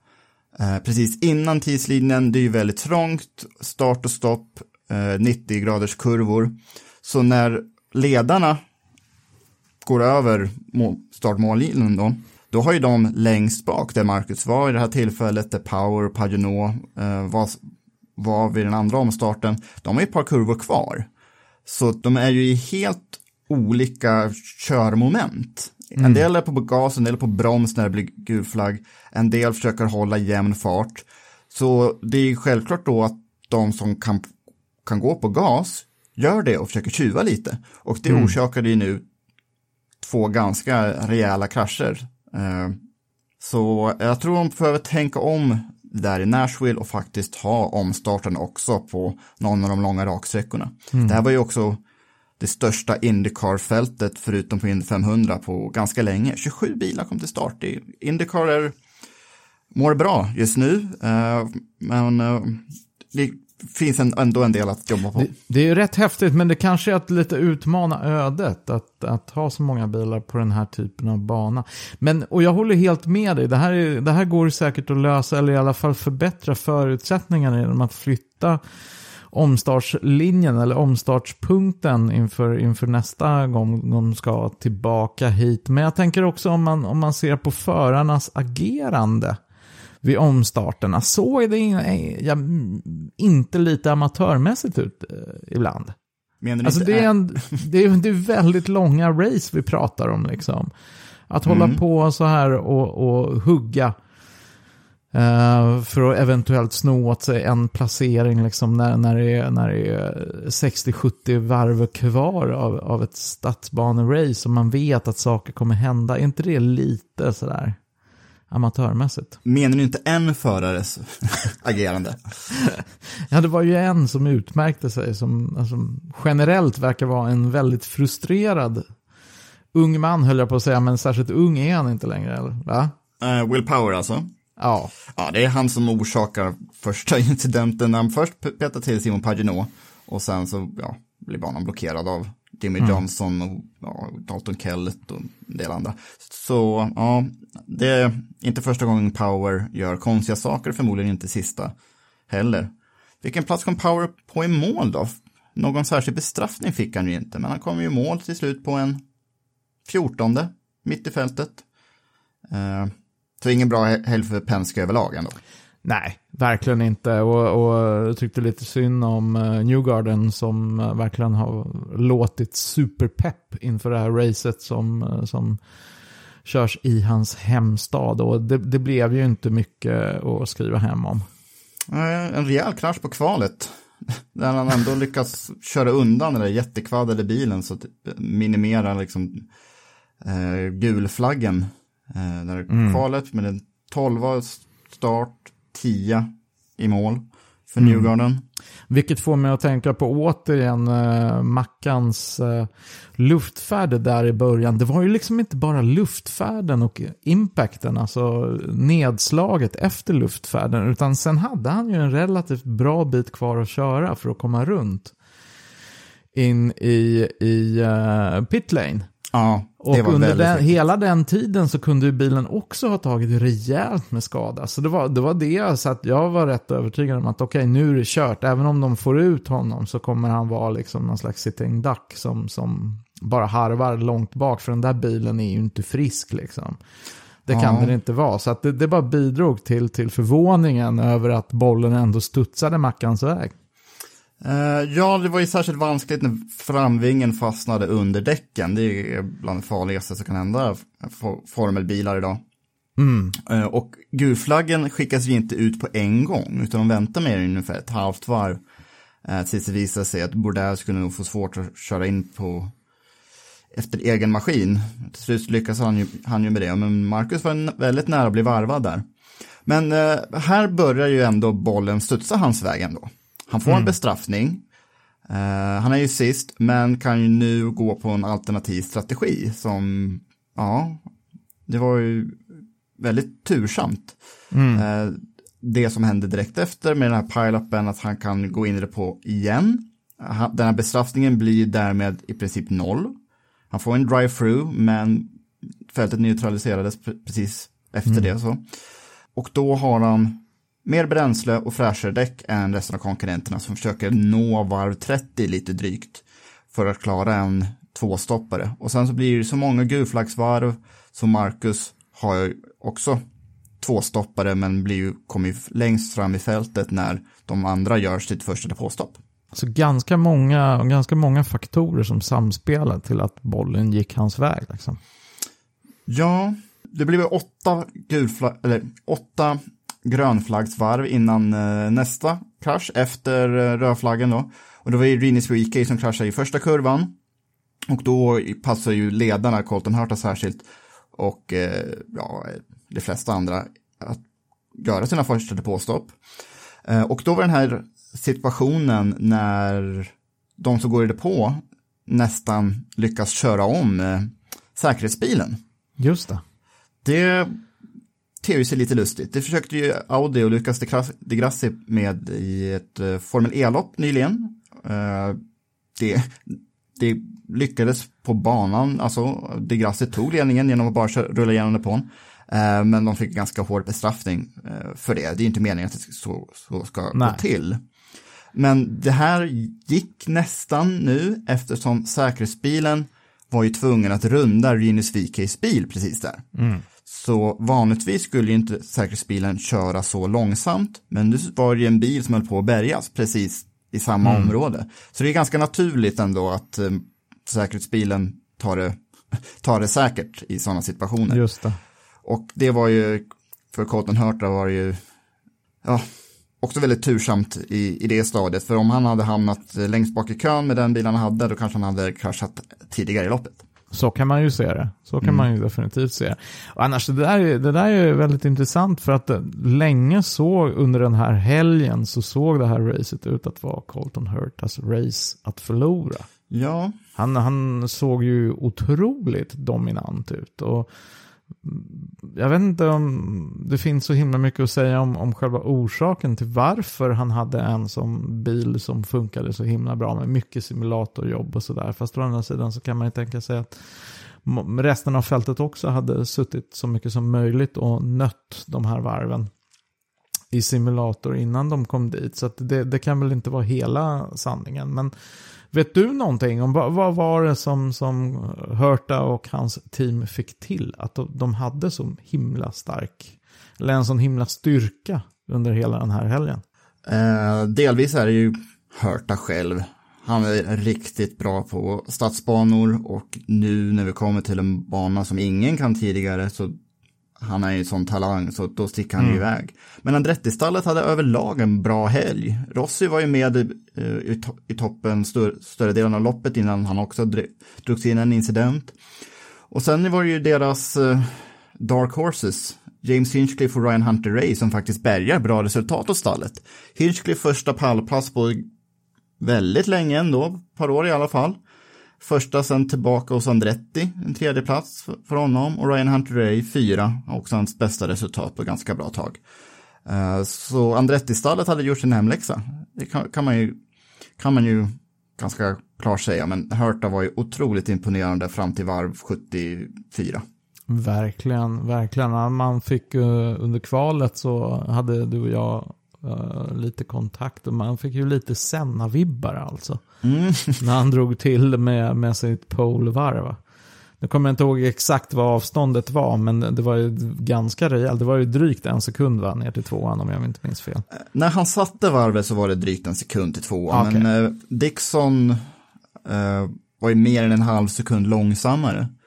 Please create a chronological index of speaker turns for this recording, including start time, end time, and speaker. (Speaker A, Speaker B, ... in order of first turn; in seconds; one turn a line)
Speaker A: 0.6-8.6
Speaker A: 9.8-17.6
Speaker A: 18.2-21.1
Speaker A: 21.7-34.3
Speaker B: 26.0-26.3
Speaker A: 34.9-39.0
Speaker B: 38.1-38.4
Speaker A: 40.0-42.8
Speaker A: 43.4-51.8
Speaker B: 50.9-51.2
Speaker A: 52.4-58.8
Speaker A: 59.7-65.3
Speaker B: 65.2-78.6
Speaker B: 79.3-89.4
Speaker B: 90.0-96.0
Speaker A: 96.4-97.6
Speaker B: 96.6-100.7
Speaker B: 101.3-104.0
Speaker A: 101.5-101.8
Speaker B: 105.1-117.8
Speaker B: 118.5-119.4
Speaker A: 119.5-122.2
Speaker B: 123.3-128.8
Speaker B: 129.7-132.9
Speaker A: 133.2-134.3
Speaker B: 134.6-134.9
Speaker A: 135.1-151.7
Speaker A: 152.3-159.0
Speaker A: 159.9-161.6
Speaker A: 162.5-165.4
Speaker B: 165.8-175.6
Speaker B: 176.4-181.3
Speaker A: 181.9-189.5
Speaker A: 190.2-198.4
Speaker B: 192.7-193.0
Speaker B: 197.8-198.1
Speaker B: 198.9-215.1
Speaker B: 216.3-219.1
Speaker A: 219.3-220.8
Speaker B: 219.8-236.8
Speaker B: 237.5-243.5
Speaker A: 237.5-238.0
Speaker A: 244.4-252.4
Speaker B: 253.0-253.3
Speaker A: 253.4-258.6
Speaker A: 259.2-262.7
Speaker A: 263.7-269.0
Speaker A: 269.7-274.6
Speaker B: 273.7-273.9
Speaker A: 275.3-281.1
Speaker A: 281.7-284.2
Speaker B: 284.5-284.8
Speaker A: 284.7-293.2
Speaker A: 293.7-295.3
Speaker A: 295.9-298.6
Speaker A: 299.4-313.2
Speaker A: 313.8-319.2
Speaker B: 319.5-325.0
Speaker A: 326.1-337.1
Speaker A: 337.9-344.2
Speaker A: 344.8-346.1
Speaker A: 346.9-355.6
Speaker B: 356.0-356.4
Speaker A: 357.0-357.6
Speaker A: 358.4-365.4
Speaker A: 366.0-377.8
Speaker B: 377.1-377.4
Speaker A: 378.5-386.4
Speaker B: 386.6-386.8
Speaker A: 387.1-401.4
Speaker B: 394.2-394.5
Speaker B: 401.3-401.8
Speaker A: 402.2-405.0
Speaker A: 406.6-413.6
Speaker B: 413.9-426.3
Speaker A: 426.5-426.9
Speaker B: 427.2-430.9
Speaker B: 431.6-449.5
Speaker B: 450.5-455.1
Speaker B: 455.7-466.6
Speaker A: 467.1-476.8
Speaker A: 477.4-489.0
Speaker A: 489.7-498.7
Speaker A: 499.4-501.6
Speaker A: 502.2-509.4
Speaker A: 510.1-513.8
Speaker A: 514.4-520.4
Speaker B: 520.9-530.0
Speaker A: 530.2-530.8
Speaker B: 530.8-533.6
Speaker B: 534.2-541.1
Speaker A: 541.2-545.6
Speaker B: 543.9-544.3
Speaker A: 546.2-549.1